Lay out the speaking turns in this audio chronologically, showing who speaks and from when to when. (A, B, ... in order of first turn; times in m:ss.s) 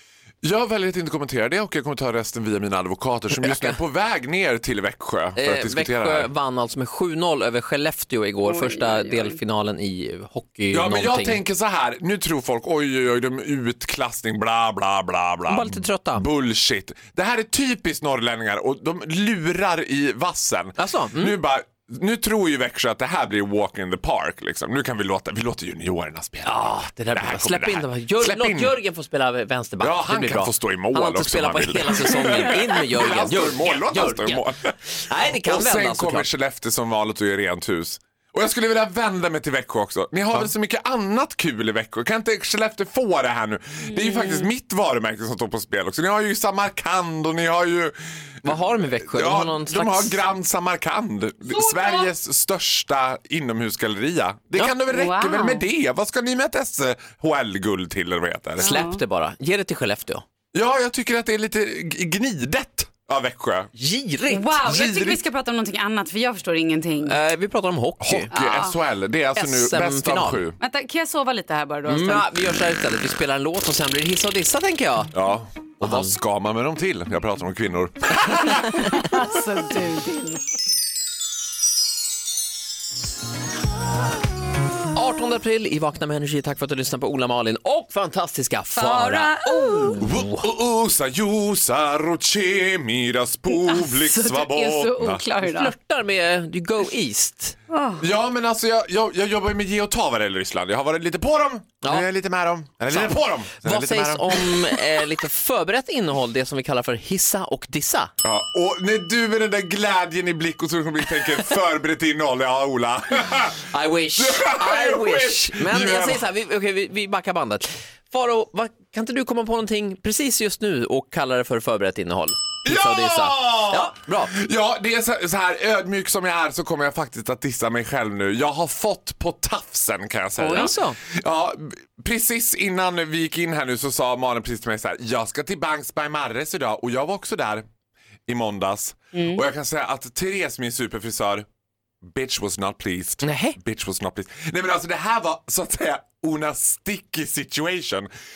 0:00.4-0:06.3 A
0:03.5-0:03.7 B
0:05.4-0:11.4 B
0:08.4-0:09.4 C
0:10.7-0:28.8 A
0:15.5-0:16.2 B
0:20.8-0:21.3 B
0:26.4-0:36.3 B
0:29.8-0:34.8 A
0:35.3-0:58.7 A
0:43.9-0:44.5 C
0:48.4-0:50.2 B
0:51.5-0:52.1 C
0:54.9-0:55.6 C
0:58.6-1:00.2 B
0:58.6-0:59.0 C
1:00.5-1:03.7 A
1:03.8-1:04.5 B
1:04.3-1:07.2 C
1:04.6-1:05.2 A
1:07.0-1:08.3 B
1:08.0-1:10.6 A
1:08.3-1:08.8 C
1:09.3-1:10.4 B
1:10.6-1:12.3 C
1:11.8-1:15.1 B
1:15.1-1:18.8 A
1:15.8-1:16.1 B
1:18.5-1:20.4 C
1:24.9-1:30.4 B
1:28.7-1:30.0 C
1:30.0-1:35.2 A
1:33.5-1:35.7 C
1:35.4-1:37.6 B
1:37.7-1:38.0 C
1:38.0-1:45.0 A
1:42.9-1:48.1 B
1:48.2-1:56.2 A
1:53.6-2:04.3 B
2:02.6-2:17.6 A
2:10.4-2:11.0 B
2:18.3-2:21.4 A
2:19.1-2:19.4 C
2:22.0-2:28.1 A
2:23.2-2:23.6 B